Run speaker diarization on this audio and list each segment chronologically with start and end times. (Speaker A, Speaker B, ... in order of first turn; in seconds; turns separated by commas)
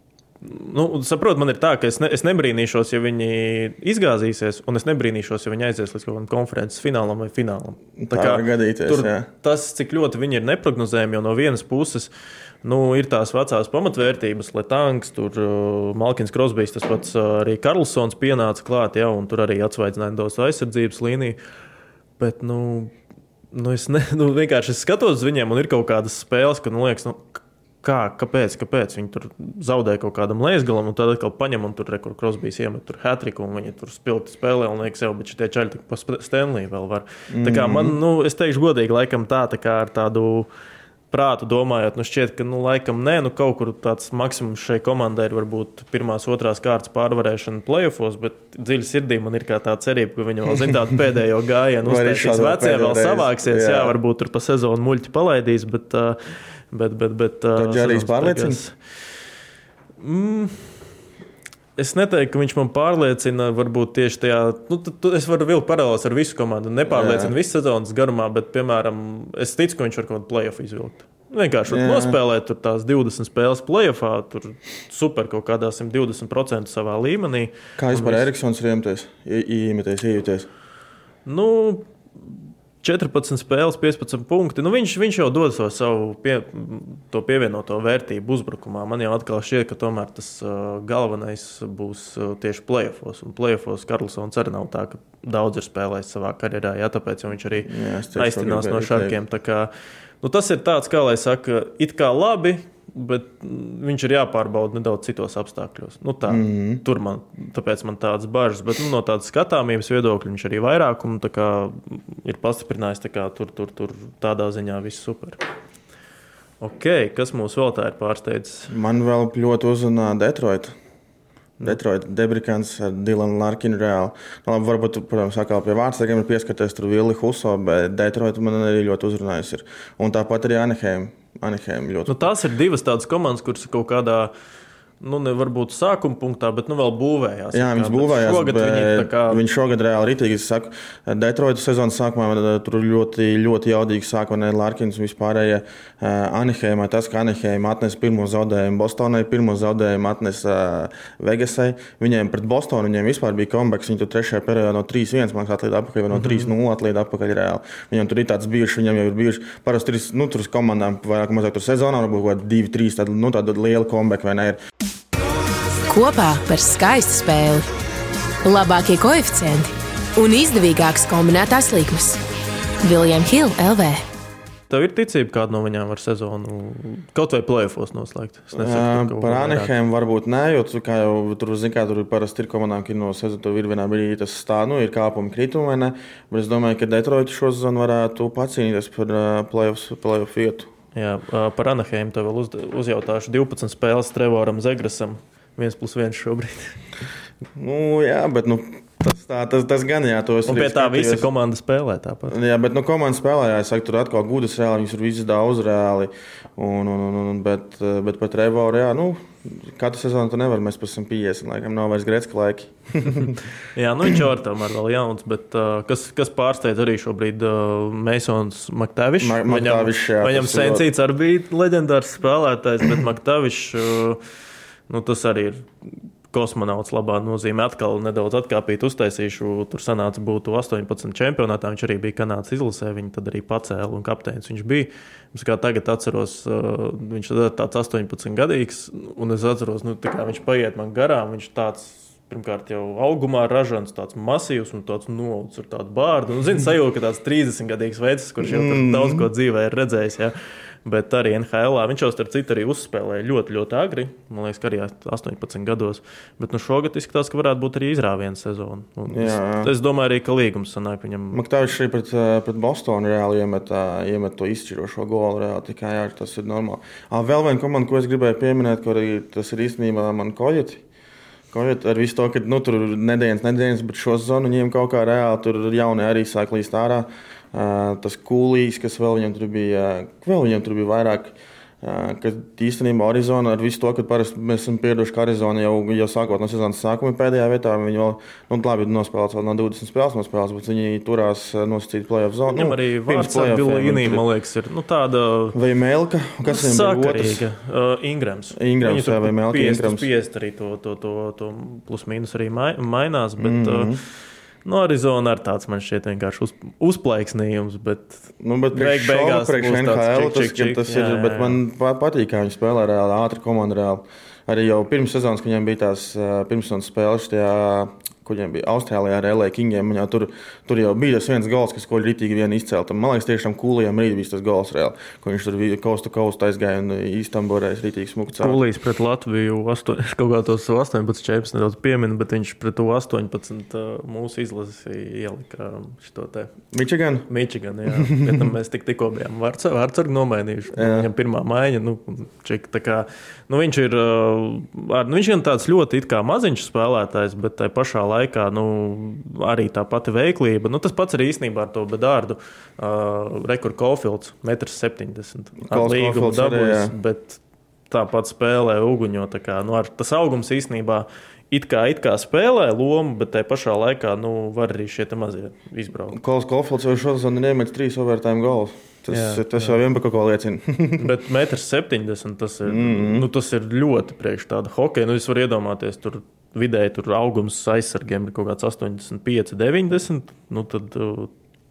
Speaker A: 0.4-12.1, Speaker B: 8.0-9.3, Speaker A: 12.6-21.4, Speaker A: 22.2-22.9, Speaker A: 23.5-40.5, Speaker B: 37.3-38.0, Speaker A: 41.1-56.2, Speaker B: 51.8-54.0, Speaker A: 56.7-58.7, Speaker B: 57.6-58.6, Speaker A: 60.0-60.7, Speaker A: 61.8-78.3, Speaker B: 66.9-67.3, Speaker B: 71.7-72.2, Speaker B: 77.8-80.5, Speaker A: 81.2-81.9, Speaker A: 82.8-99.7, Speaker B: 97.7-99.2, Speaker A: 100.2-115.4, Speaker B: 106.3-106.8, Speaker A: 116.6-118.7, Speaker B: 118.7-120.8, Speaker B: 121.6-132.2, Speaker A: 132.1-134.3, Speaker A: 135.0-139.4, Speaker B: 137.5-164.6, Speaker A: 156.1-156.5, Speaker C: 165.9-167.7, Speaker C: 168.4-172.2, Speaker C: 172.8-174.0, Speaker A: 174.7-179.7, Speaker B: 178.5-190.7, Speaker A: 190.9-196.8, Speaker B: 197.6-201.3, Speaker A: 200.4-202.3, Speaker B: 202.3-213.3, Speaker A: 213.2-224.2, Speaker B: 219.2-220.9, Speaker A: 224.9-225.7, Speaker A: 226.3-250.3, Speaker B: 248.4-249.3, Speaker A: 250.8-261.4, Speaker B: 259.1-259.7, Speaker B: 261.3-270.8, Speaker B: 271.5-294.3, Speaker A: 292.5-295.6, Speaker B: 295.5-297.5, Speaker A: 296.5-304.0, Speaker B: 298.6-300.1, Speaker B: 303.4-304.0, Speaker A: 304.6-311.6, Speaker B: 308.4-328.6, Speaker A: 328.3-336.5, Speaker B: 336.7-337.3, Speaker A: 337.3-366.2, Speaker B: 337.9-338.5, Speaker B: 340.7-341.1, Speaker B: 355.6-356.9, Speaker B: 366.1-371.1, Speaker A: 369.1-369.8, Speaker A: 371.0-381.3, Speaker B: 372.6-373.3